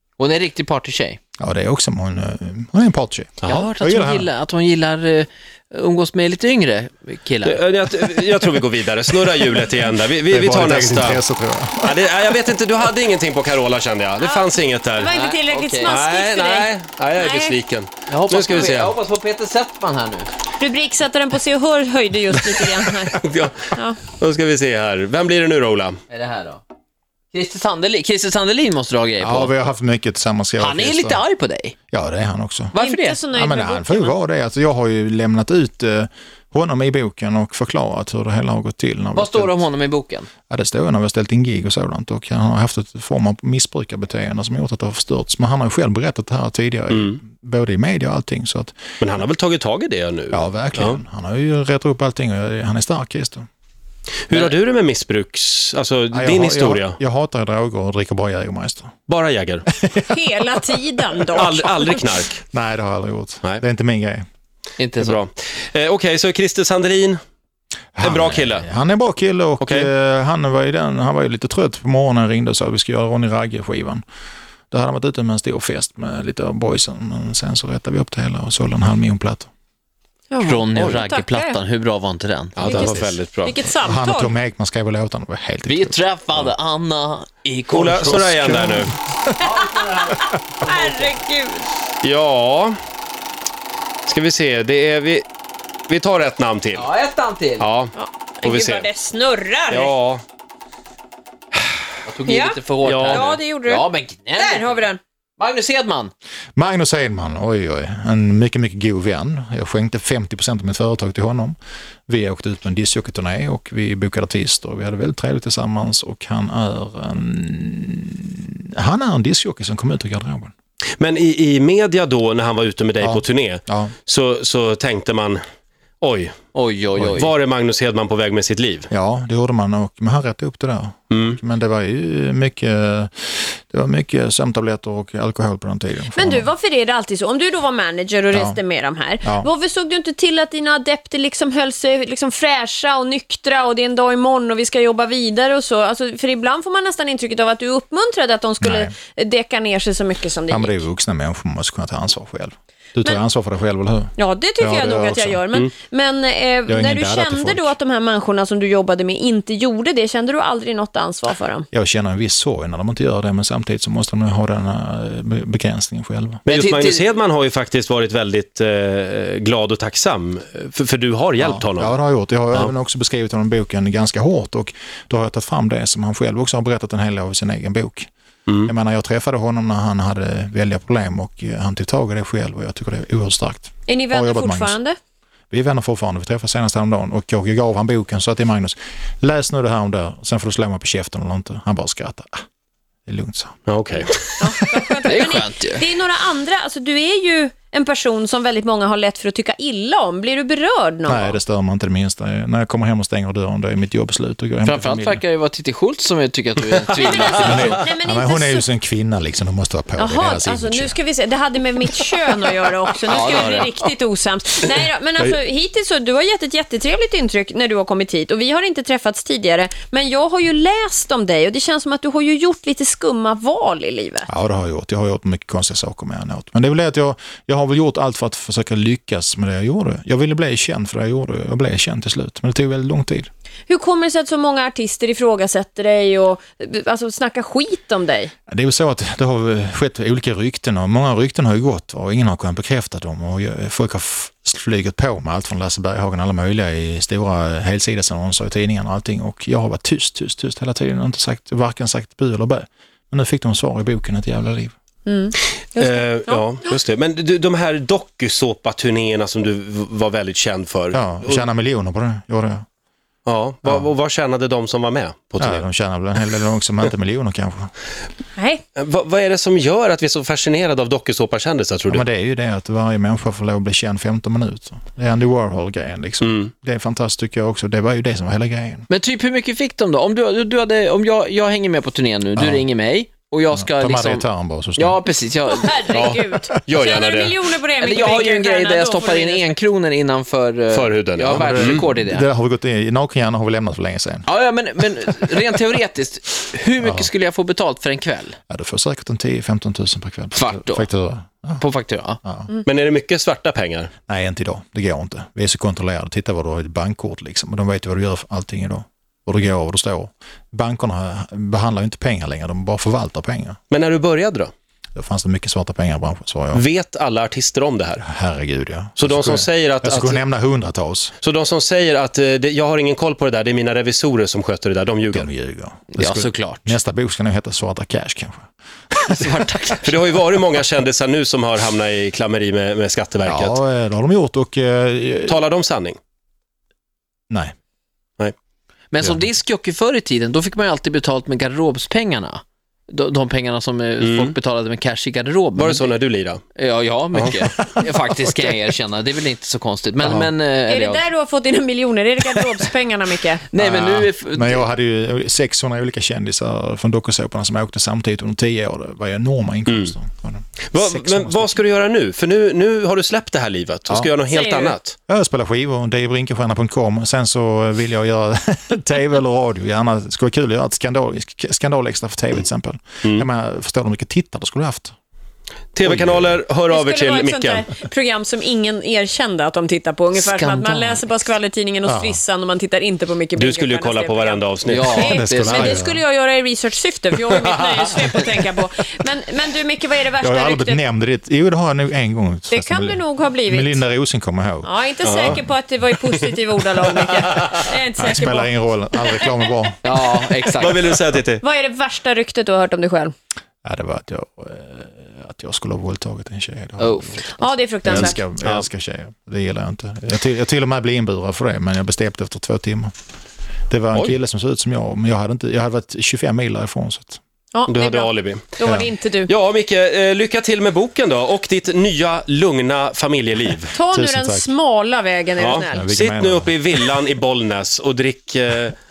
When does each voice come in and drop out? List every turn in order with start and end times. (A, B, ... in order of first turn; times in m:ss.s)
0:00.2-0:01.2 A
0:01.4-0:04.3 B
0:03.4-0:07.6 A
0:07.4-0:11.2 C
0:10.3-0:12.2 B
0:11.8-0:15.2 C
0:14.2-0:17.6 D
0:15.1-0:16.0 A
0:15.8-0:19.0 C
0:18.1-0:20.3 A
0:20.6-0:24.0 D
0:22.8-0:26.0 C
0:26.1-0:26.6 A
0:27.3-0:29.6 A
0:29.2-0:31.2 B
0:30.6-0:31.8 A
0:31.9-0:32.8 B
0:32.7-0:33.2 A
0:32.8-0:34.1 D
0:33.3-0:39.7 B
0:39.1-0:40.3 A
0:40.5-0:48.8 B
0:46.9-0:47.2 C
0:49.0-0:51.0 C
0:50.3-0:53.5 B
0:54.3-0:57.0 C
0:56.1-0:58.9 B
0:59.1-0:59.6 C
0:59.8-1:00.2 B
1:00.1-1:02.0 D
1:01.3-1:02.4 C
1:02.5-1:04.2 B
1:04.8-1:05.2 A
1:05.0-1:07.2 C
1:08.0-1:14.0 B
1:08.0-1:08.7 C
1:09.6-1:09.9 C
1:14.7-1:19.5 B
1:20.3-1:21.6 D
1:20.4-1:22.6 A
1:22.6-1:23.6 C
1:22.6-1:24.4 D
1:22.6-1:23.2 B
1:23.8-1:26.6 B
1:25.7-1:28.4 A
1:27.7-1:28.9 C
1:28.0-1:29.3 B
1:29.4-1:31.7 D
1:29.4-1:31.2 A
1:32.0-1:32.8 C
1:34.1-1:35.2 C
1:35.9-1:36.9 C
1:36.7-1:37.7 A
1:37.6-1:38.9 C
1:38.0-1:39.9 D
1:39.7-1:40.2 C
1:42.1-1:46.1 A
1:42.3-1:45.0 D
1:42.8-1:43.3 C
1:46.6-1:51.6 B
1:52.1-2:00.5 B
2:01.0-2:05.4 C
2:03.0-2:03.9 B
2:06.0-2:06.4 C
2:06.5-2:07.3 A
2:07.0-2:08.9 C
2:08.9-2:16.5 B
2:11.1-2:11.4 C
2:16.1-2:30.8 D
2:18.3-2:18.6 B
2:19.2-2:19.5 B
2:28.6-2:28.9 B
2:30.5-2:35.4 B
2:34.2-2:41.7 D
2:36.7-2:37.7 B
2:41.7-2:46.4 B
2:46.5-2:47.1 A
2:46.5-2:52.0 C
2:51.4-2:58.1 B
2:58.6-3:04.8 B
3:03.9-3:05.0 D
3:05.5-3:12.4 B
3:13.1-3:14.2 B
3:13.7-3:14.4 C
3:14.4-3:21.4 D
3:15.1-3:15.9 A
3:21.1-3:25.2 B
3:24.6-3:27.9 A
3:26.9-3:28.7 D
3:27.3-3:31.0 B
3:30.0-3:44.3 D
3:33.1-3:33.9 A
3:44.3-3:53.3 B
3:53.7-3:58.3 D
3:58.5-4:14.8 B
4:15.1-4:16.7 D
4:15.8-4:21.4 C
4:20.9-4:22.7 B
4:23.3-4:25.6 C
4:25.4-4:27.7 B
4:28.4-4:28.6 D
4:28.8-4:32.0 C
4:31.9-4:38.9 B
4:36.2-4:36.5 C
4:38.9-4:46.1 A
4:42.4-4:42.7 B
4:43.5-4:45.0 B
4:45.5-4:49.6 D
4:46.6-4:47.4 C
4:47.8-4:52.3 A
4:50.7-4:51.8 C
4:51.3-4:54.3 B
4:54.3-4:58.4 A
4:56.8-4:57.1 B
4:58.5-5:01.6 B
5:00.4-5:00.9 A
5:01.6-5:02.2 A
5:02.2-5:02.5 B
5:02.6-5:03.9 C
5:04.1-5:13.6 B
5:13.7-5:14.5 C
5:15.0-5:16.6 B
5:16.5-5:18.0 C
5:18.0-5:21.1 B
5:19.0-5:20.2 C
5:21.2-5:25.3 C
5:25.1-5:29.3 B
5:26.0-5:26.8 A
5:29.1-5:29.9 A
5:29.8-5:33.6 C
5:33.2-5:35.4 B
5:35.3-5:36.0 C
5:38.9-5:45.9 A
5:39.0-5:39.2 B
5:44.0-5:44.4 C
5:45.6-5:46.4 C
5:46.6-5:51.1 A
5:50.0-5:50.3 B
5:50.7-5:53.5 D
5:53.5-5:54.6 A
5:53.6-6:01.5 B
6:00.7-6:05.0 C
6:03.9-6:04.1 B
6:04.3-6:04.8 D
6:05.1-6:15.0 B
6:15.8-6:17.7 C
6:15.8-6:16.4 B
6:16.7-6:30.8 D
6:20.1-6:21.1 A
6:21.8-6:22.2 B
6:23.4-6:25.1 C
6:24.7-6:25.8 A
6:25.1-6:26.0 B
6:30.2-6:35.4 B
6:32.5-6:33.8 D
6:34.6-6:39.5 D
6:35.0-6:35.4 C
6:38.0-6:40.0 B
6:39.8-6:40.9 A
6:40.6-6:41.4 C
6:41.4-6:43.1 D
6:43.6-6:47.3 B
6:46.8-6:47.6 A
6:47.4-6:48.2 D
6:47.8-6:52.9 B
6:47.9-6:48.7 C
6:53.7-6:57.2 B
6:57.5-6:59.3 D
6:57.7-6:58.4 C
6:58.6-6:58.9 B
6:59.3-7:03.8 C
7:03.7-7:05.9 D
7:03.9-7:04.5 B
7:05.4-7:08.8 C
7:05.7-7:06.5 B